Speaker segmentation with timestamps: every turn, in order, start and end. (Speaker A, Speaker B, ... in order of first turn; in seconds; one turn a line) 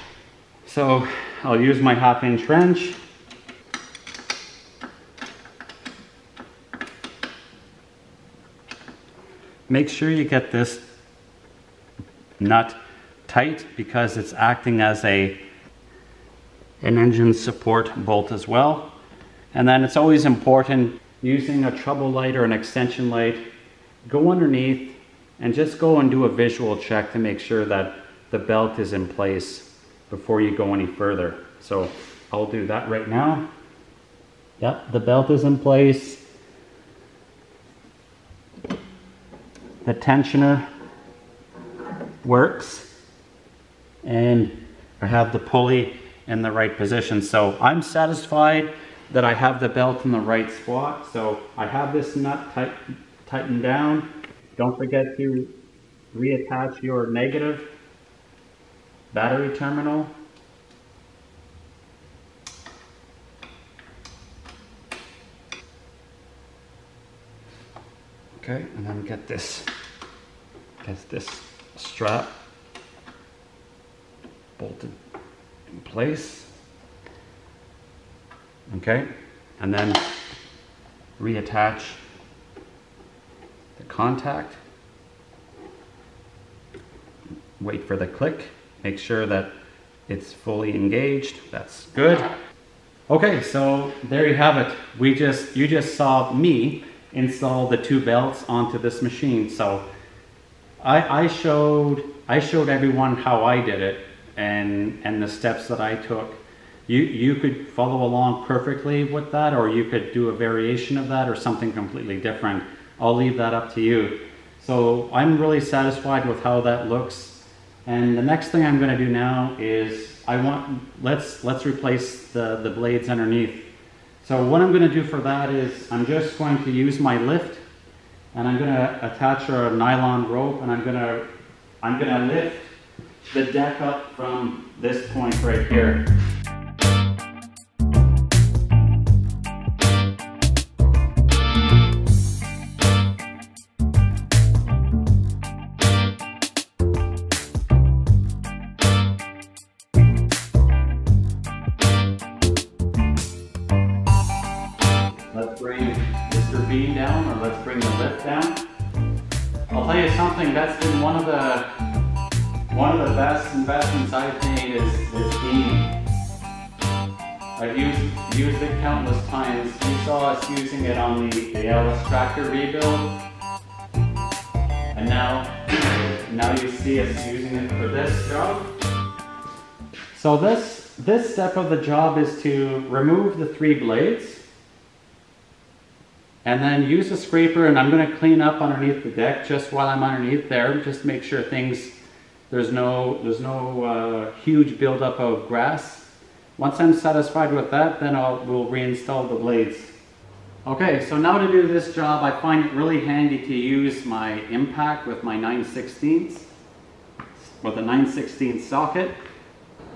Speaker A: 0.6-3.0
Speaker A: 9.7-10.9
Speaker A: 12.4-15.4
Speaker A: 16.8-18.9
Speaker A: 19.5-23.4
Speaker A: 24.0-33.5
Speaker A: 34.6-36.2
Speaker A: 39.8-40.6
Speaker A: 42.2-42.9
Speaker A: 44.0-55.5
Speaker A: 56.1-57.7
Speaker A: 59.1-60.1
Speaker A: 68.4-69.7
Speaker A: 70.8-72.3
Speaker A: 74.6-75.0
Speaker A: 75.8-76.5
Speaker A: 78.7-79.1
Speaker A: 79.6-80.0
Speaker A: 81.2-82.0
Speaker A: 83.8-84.6
Speaker A: 87.6-89.5
Speaker A: 90.1-92.2
Speaker A: 93.1-99.8
Speaker A: 100.8-123.7
Speaker A: 124.2-127.6
Speaker A: 128.3-131.3
Speaker A: 131.8-132.7
Speaker A: 133.3-136.1
Speaker A: 155.3-158.6
Speaker A: 159.7-161.7
Speaker A: 162.7-165.9
Speaker A: 167.6-173.1
Speaker A: 174.9-178.7
Speaker A: 180.1-184.4
Speaker A: 186.4-192.0
Speaker A: 192.5-199.9
Speaker A: 200.6-206.5
Speaker A: 207.4-209.2